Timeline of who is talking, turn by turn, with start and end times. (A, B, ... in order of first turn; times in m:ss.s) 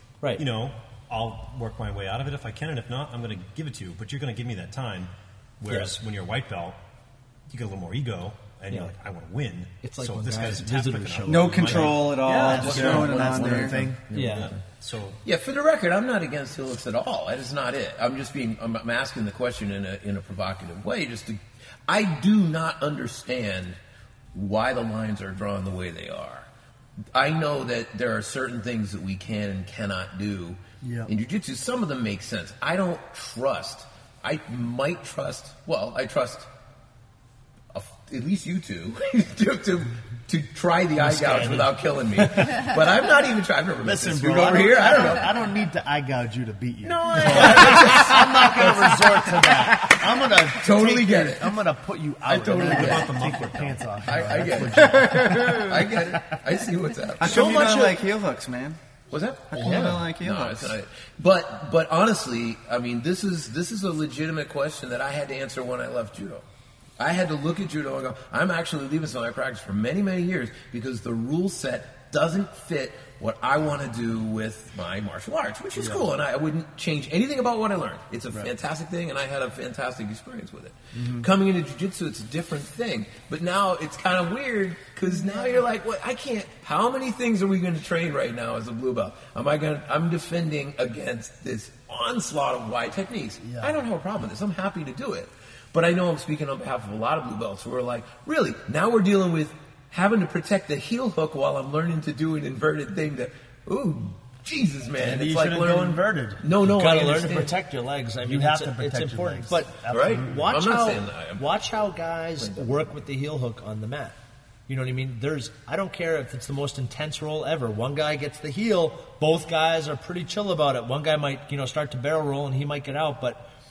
0:00.3-0:06.8 A
0:07.5-0:15.2 A
0:08.7-0:09.0 B
0:09.8-0:12.1 B
0:11.3-0:13.8 C
0:12.2-0:14.0 D
0:14.1-0:14.5 B
0:14.1-0:14.6 E
0:15.2-0:23.8 E
0:24.3-0:26.5 E
0:27.1-0:36.5 E
0:30.8-0:31.1 D
0:37.7-0:45.4 E
0:41.0-0:42.7 B
0:43.8-0:56.2 D
0:46.8-0:50.0 E
0:50.6-0:51.6 E
0:52.3-0:58.0 E
0:52.4-0:53.7 B
0:53.0-0:53.4 A
0:54.7-0:56.1 C
0:57.2-0:58.8 C
0:59.1-1:06.4 E
0:59.5-1:00.8 C
0:59.6-1:00.1 D
1:07.0-1:47.5 E
1:15.8-1:16.1 D
1:20.9-1:21.3 D
1:33.4-1:33.8 D
1:45.0-1:46.5 D
1:46.7-1:54.2 B
1:48.2-1:50.5 D
1:49.9-1:51.4 E
1:54.7-2:03.5 B